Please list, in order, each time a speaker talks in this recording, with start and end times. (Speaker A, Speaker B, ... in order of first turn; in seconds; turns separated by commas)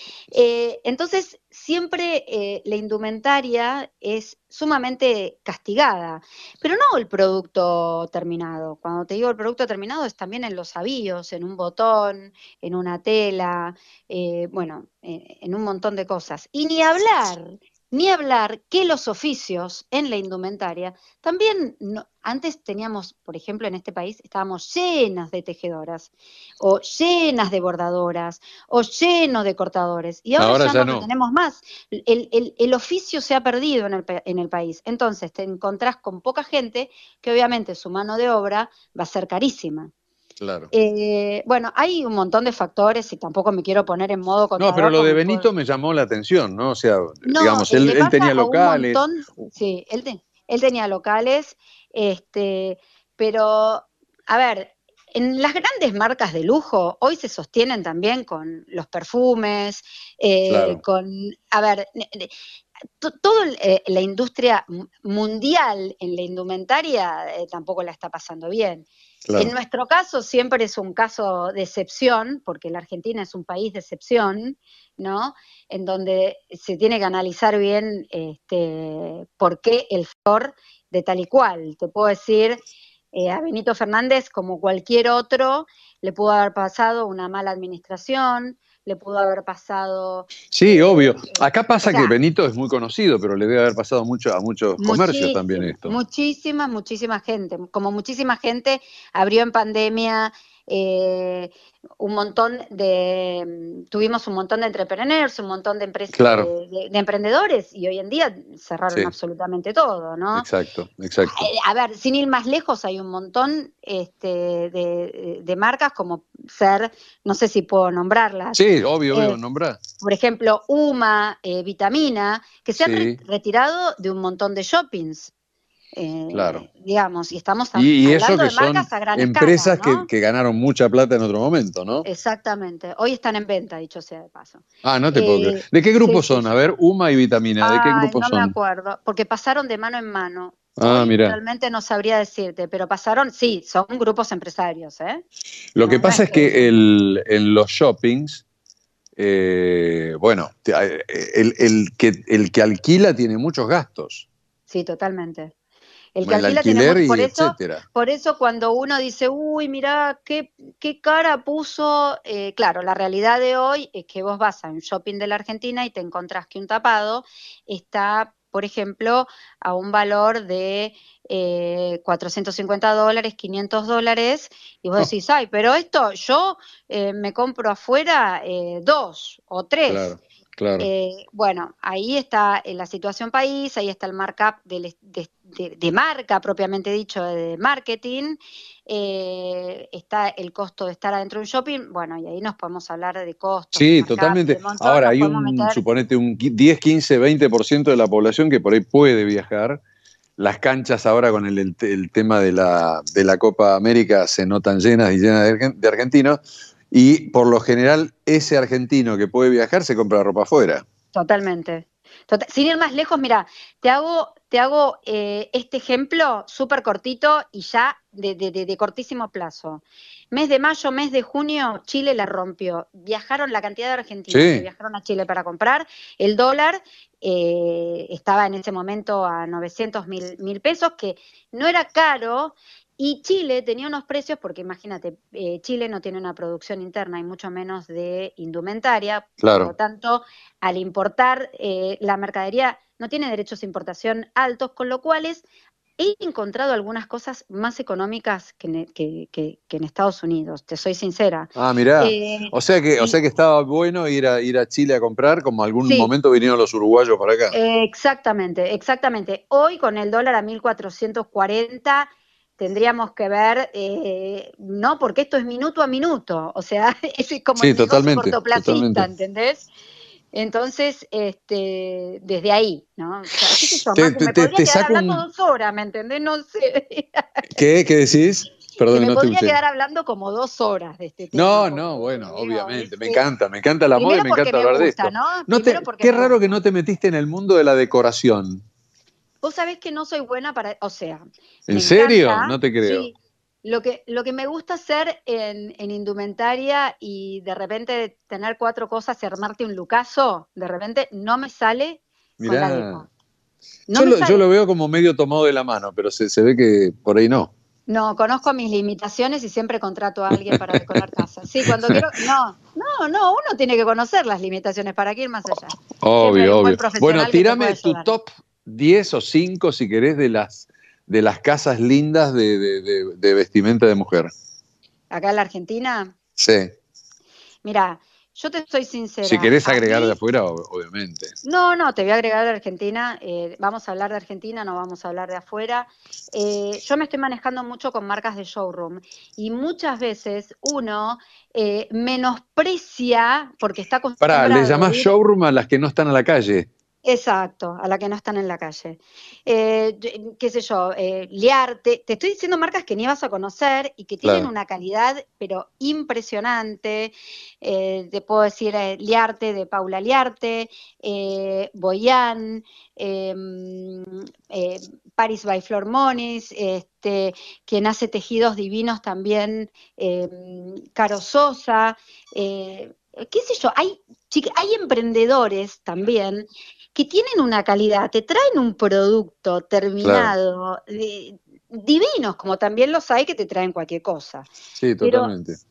Speaker A: 0.3-39.9, Speaker B: 30.4-31.1, Speaker B: 40.4-40.7, Speaker A: 40.7-45.5, Speaker B: 44.6-49.0, Speaker A: 47.2-62.3, Speaker B: 60.5-60.8, Speaker A: 63.0-82.6, Speaker B: 69.2-69.5, Speaker A: 83.1-92.1, Speaker B: 90.5-96.0, Speaker A: 94.8-110.5, Speaker B: 106.1-106.5, Speaker B: 110.3-111.5, Speaker A: 111.3-118.6, Speaker B: 118.5-119.8, Speaker A: 119.1-119.4, Speaker A: 120.0-125.3, Speaker B: 122.8-123.2, Speaker A: 125.9-130.1, Speaker B: 126.3-126.6, Speaker B: 127.7-132.0, Speaker A: 132.0-136.5, Speaker B: 134.8-138.5, Speaker A: 137.6-145.2, Speaker B: 140.8-141.4, Speaker B: 145.7-148.4, Speaker A: 145.8-146.7, Speaker B: 149.2-154.3, Speaker A: 154.7-155.5, Speaker A: 156.1-180.1, Speaker B: 156.2-157.8, Speaker B: 179.9-180.9, Speaker A: 180.8-195.8, Speaker B: 193.7-199.8, Speaker B: 200.4-206.4, Speaker B: 206.9-210.8, Speaker A: 211.1-245.4, Speaker B: 224.3-224.6, Speaker B: 239.4-239.7, Speaker A: 246.0-253.2, Speaker B: 251.6-257.6, Speaker A: 255.8-256.1, Speaker A: 257.5-269.7, Speaker B: 267.6-269.1, Speaker A: 270.3-277.4, Speaker B: 273.5-275.2, Speaker B: 277.5-279.6, Speaker A: 278.9-283.2, Speaker B: 281.3-288.6, Speaker A: 283.9-286.6, Speaker A: 289.4-303.1, Speaker B: 291.7-293.1, Speaker B: 302.4-303.1, Speaker A: 303.9-304.4, Speaker B: 303.9-307.5, Speaker A: 307.9-318.1, Speaker B: 310.3-312.0, Speaker B: 316.0-324.3, Speaker A: 325.1-326.1, Speaker B: 326.4-326.7, Speaker A: 327.6-330.2, Speaker B: 329.2-331.4, Speaker A: 331.4-345.1, Speaker B: 344.2-346.7, Speaker A: 347.0-384.5, Speaker B: 354.2-354.5, Speaker B: 380.0-380.3, Speaker B: 384.8-385.6, Speaker A: 385.0-385.3